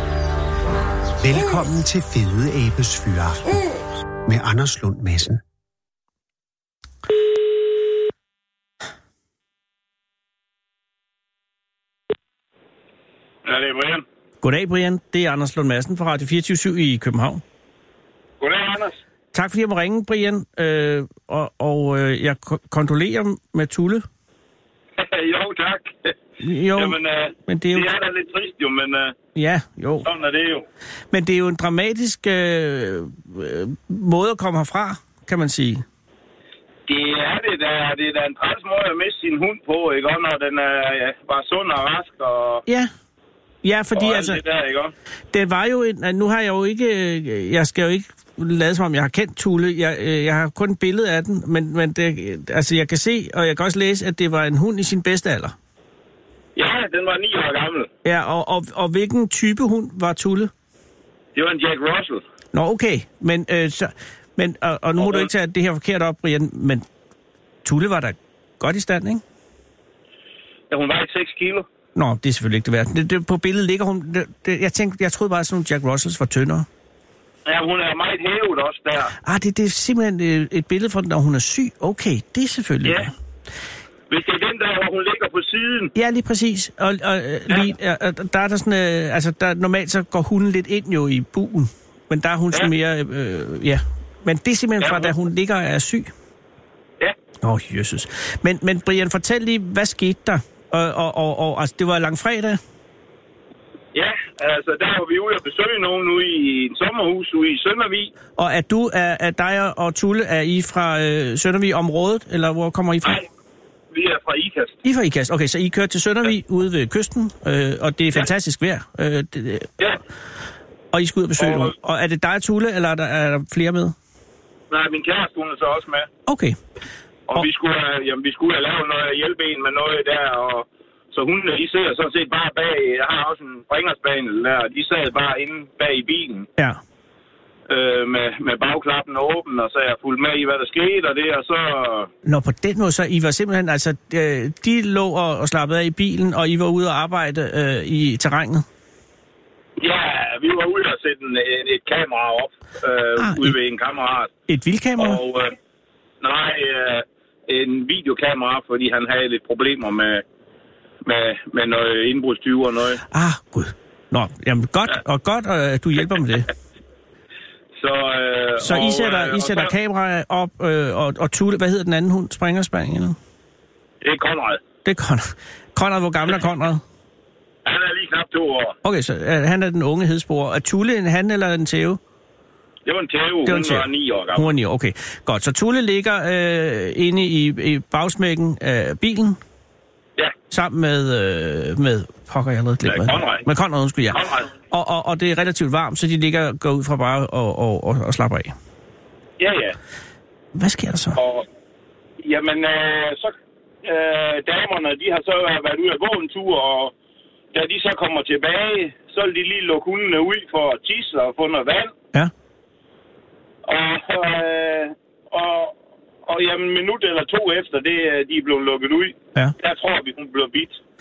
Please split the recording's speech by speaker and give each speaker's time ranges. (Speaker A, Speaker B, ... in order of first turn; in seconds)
Speaker A: 1.2-3.6, 4.2-5.4
Speaker B: 13.4-14.0, 18.4-19.0, 25.0-26.1, 26.7-29.1, 30.0-30.6, 36.9-42.6, 43.9-44.9, 56.5-57.9, 61.3-62.2, 65.0-65.3, 70.7-71.7, 77.5-79.1, 82.8-83.1, 84.1-85.9, 94.8-95.1, 103.9-108.1, 113.9-114.8, 121.4-121.7, 124.7-126.1, 127.3-136.5, 137.7-142.1, 149.8-154.3, 155.0-155.5, 156.2-160.2, 161.0-163.0, 167.8-169.7, 174.0-174.6, 177.6-178.8, 182.8-184.5, 192.8-193.4, 194.1-194.5, 199.4-199.8, 201.2-201.4, 202.2-206.9, 207.5-211.9, 213.6-215.7, 216.2-220.8
Speaker C: 14.4-17.4, 19.3-24.0, 26.4-27.9, 29.3-30.1, 31.1-35.8, 43.6-44.4, 45.3-55.5, 58.0-60.5, 62.5-66.8, 67.6-69.2, 71.9-76.7, 79.2-83.1, 86.0-96.1, 97.4-102.6, 108.4-113.2, 114.8-119.7, 120.9-123.9, 126.2-126.6, 142.2-148.6, 153.2-153.5, 154.5-155.2, 163.1-166.5, 168.6-173.2, 174.8-176.8, 178.8-182.0, 183.4-189.4, 190.5-198.5, 200.5-201.2